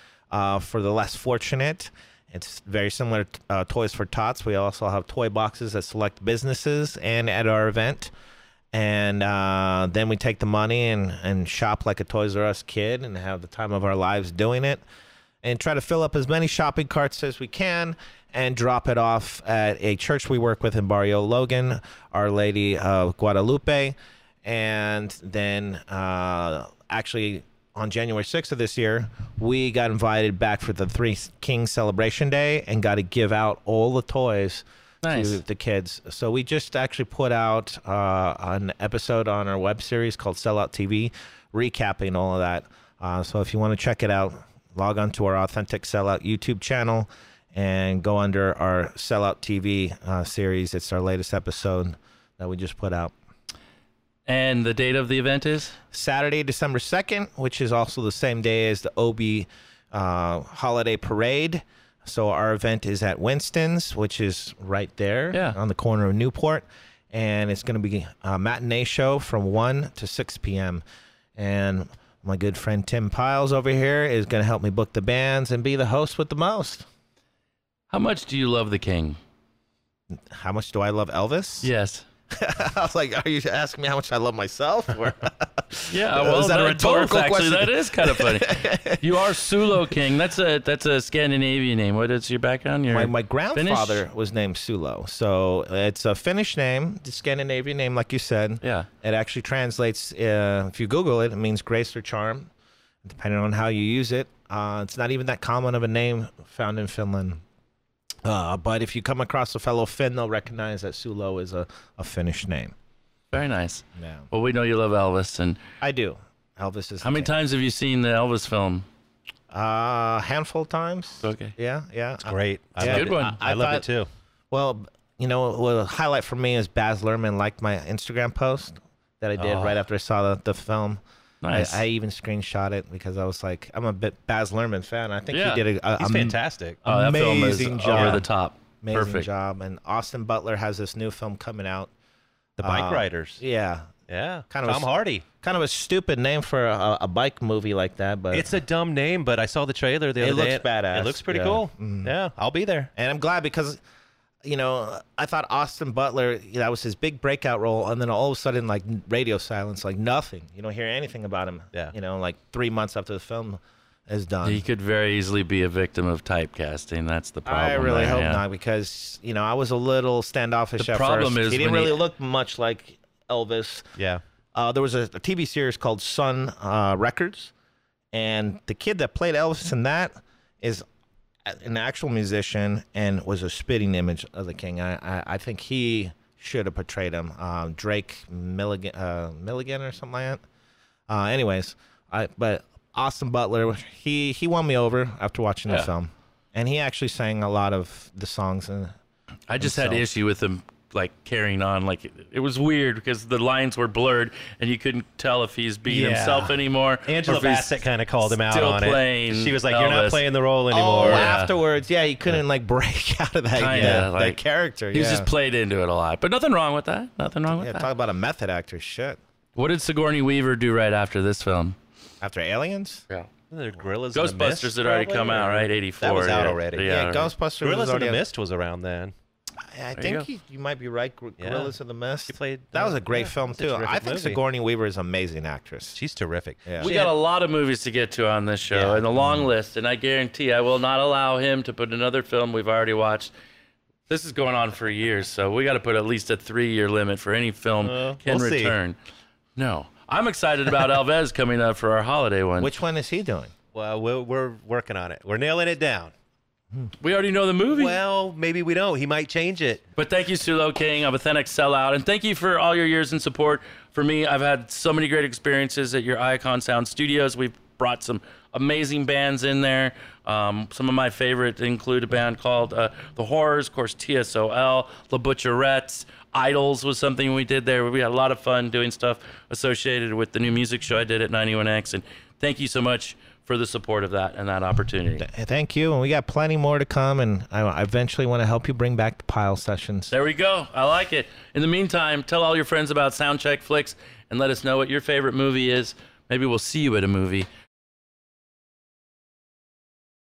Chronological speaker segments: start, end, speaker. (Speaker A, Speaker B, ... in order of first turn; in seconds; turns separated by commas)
Speaker A: 0.3-8.1, Speaker A: 8.7-14.8, Speaker A: 15.4-53.1, Speaker B: 35.0-35.4, Speaker B: 54.3-55.8, Speaker A: 55.9-70.8, Speaker A: 71.4-76.9, Speaker B: 77.9-79.2, Speaker A: 80.1-81.7, Speaker B: 81.6-82.1, Speaker A: 82.3-89.2, Speaker B: 85.9-94.0, Speaker A: 92.9-102.5, Speaker B: 98.6-98.9, Speaker A: 103.0-107.4, Speaker A: 108.2-112.7, Speaker B: 113.3-115.6, Speaker A: 114.0-114.3, Speaker A: 115.8-117.3, Speaker B: 117.0-118.9, Speaker A: 119.5-123.8, Speaker B: 121.2-121.5, Speaker C: 122.3-124.1, Speaker B: 122.8-123.4, Speaker A: 124.5-131.0, Speaker C: 129.4-129.8, Speaker B: 131.4-131.8, Speaker A: 131.5-138.3, Speaker B: 135.3-135.6, Speaker C: 136.0-136.8, Speaker B: 136.9-139.3, Speaker C: 137.9-138.2, Speaker A: 138.8-141.9, Speaker A: 142.6-143.9, Speaker C: 142.6-143.4, Speaker C: 144.1-145.2, Speaker A: 144.5-144.9, Speaker A: 145.4-148.6, Speaker C: 148.3-152.9, Speaker A: 150.2-152.1, Speaker A: 153.0-153.8, Speaker A: 154.4-164.7, Speaker B: 164.4-168.4, Speaker A: 167.5-173.8, Speaker B: 170.8-172.0, Speaker C: 174.0-174.2, Speaker A: 174.6-177.5, Speaker A: 178.1-180.8, Speaker A: 181.5-190.4, Speaker A: 191.1-198.9, Speaker B: 199.5-210.2, Speaker A: 199.6-200.0, Speaker C: 205.9-211.4, Speaker A: 210.7-215.3, Speaker B: 211.0-211.5, Speaker B: 213.6-214.4, Speaker C: 213.7-214.1, Speaker B: 214.9-217.9, Speaker A: 217.5-219.2, Speaker B: 219.6-221.8, Speaker A: 222.2-223.0, Speaker C: 223.5-226.9, Speaker B: 224.1-227.3, Speaker A: 226.8-228.2, Speaker C: 227.6-229.1, Speaker A: 229.7-236.0, Speaker C: 230.0-230.2, Speaker C: 231.4-231.7, Speaker C: 232.3-234.4, Speaker C: 235.9-237.1, Speaker B: 236.8-243.3, Speaker C: 238.7-239.0, Speaker B: 244.1-249.0, Speaker C: 247.8-248.8, Speaker B: 249.6-252.7, Speaker A: 252.6-253.5, Speaker C: 253.7-256.1, Speaker B: 257.0-258.0, Speaker C: 257.7-259.8, Speaker B: 260.0-285.2, Speaker A: 285.2-290.1, Speaker B: 290.1-297.5